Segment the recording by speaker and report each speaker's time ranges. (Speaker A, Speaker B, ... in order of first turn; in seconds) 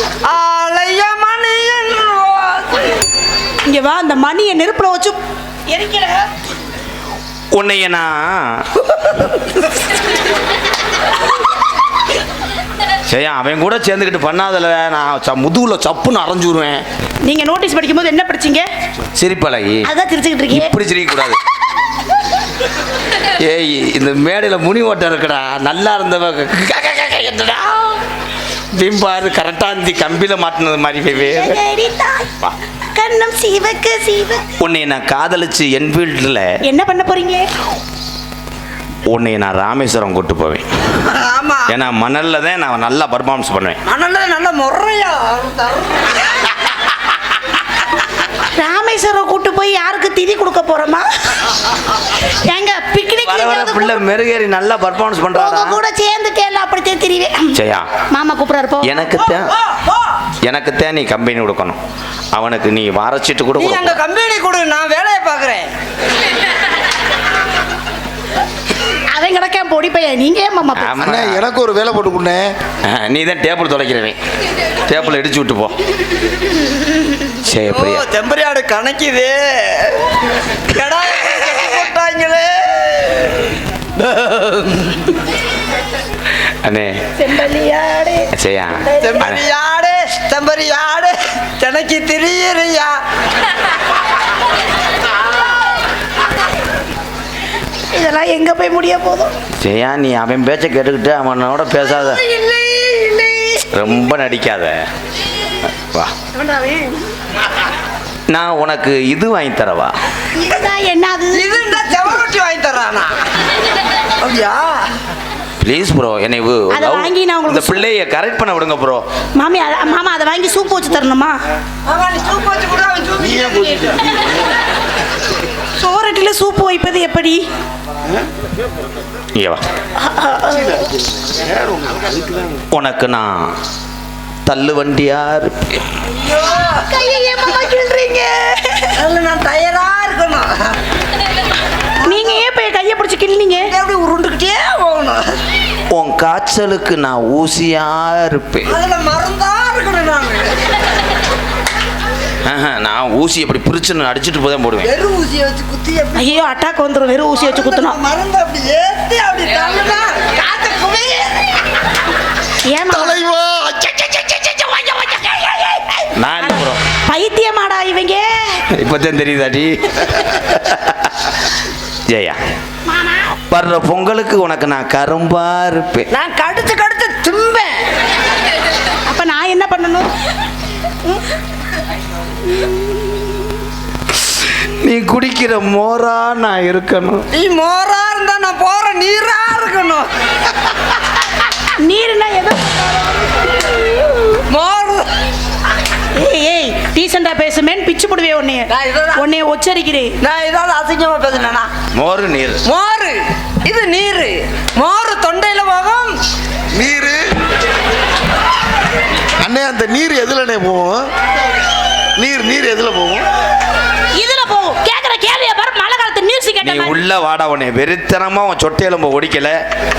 Speaker A: 0.2-3.0, 41.0-41.7, 43.9-46.1, 63.5-65.7, 77.7-80.2, 80.7-85.2, 89.0-93.0, 101.8-103.7, 111.3-113.1, 114.2-114.8, 121.9-123.8, 136.3-136.7, 139.0-140.8, 142.1-142.4, 143.7-145.4, 148.7-150.6, 154.8-156.4, 157.4-161.5, 164.6-166.0, 176.1-177.8, 187.3-190.1, 194.5-195.1, 198.7-199.2, 200.2-201.7, 202.7-206.2
Speaker B: 3.7-6.3, 17.2-18.7, 19.9-20.7, 31.1-32.3, 33.0-34.4, 36.6-37.5, 48.4-51.1, 52.4-54.0, 55.3-57.6, 58.1-59.1, 69.1-71.0, 87.2-88.3, 88.8-89.3, 97.9-99.3, 106.3-107.0, 110.4-111.6, 116.7-117.8, 119.4-121.4, 125.8-127.4, 130.0-130.8, 136.6-138.9, 142.0-143.7, 156.2-158.0, 162.7-163.2, 166.4-168.6, 172.9-173.2, 179.1-180.1, 191.8-193.4, 196.2-200.1, 214.2-217.0
Speaker C: 7.5-8.6, 13.1-16.8, 19.1-19.9, 20.5-21.4, 23.4-28.0, 28.8-31.6, 34.6-36.5, 39.1-40.6, 41.7-43.8, 53.2-55.8, 57.5-57.9, 58.8-59.5, 60.4-61.8, 62.3-64.0, 70.8-71.5, 72.9-74.2, 74.9-75.7, 77.5-78.0, 86.6-87.0, 88.3-89.4, 99.6-102.2, 103.7-104.8, 105.8-106.1, 108.3-109.9, 115.6-119.0, 129.4-129.6, 132.7-133.5, 134.5-135.8, 145.9-148.7, 152.4-154.9, 166.2-166.8, 168.8-171.3, 172.1-172.4, 173.5-176.1, 184.8-187.2, 201.9-202.6, 216.6-219.6
Speaker D: 71.0-72.5, 123.3-124.3, 131.3-132.3, 162.9-164.7, 206.7-207.2, 209.4-211.1, 212.2-213.3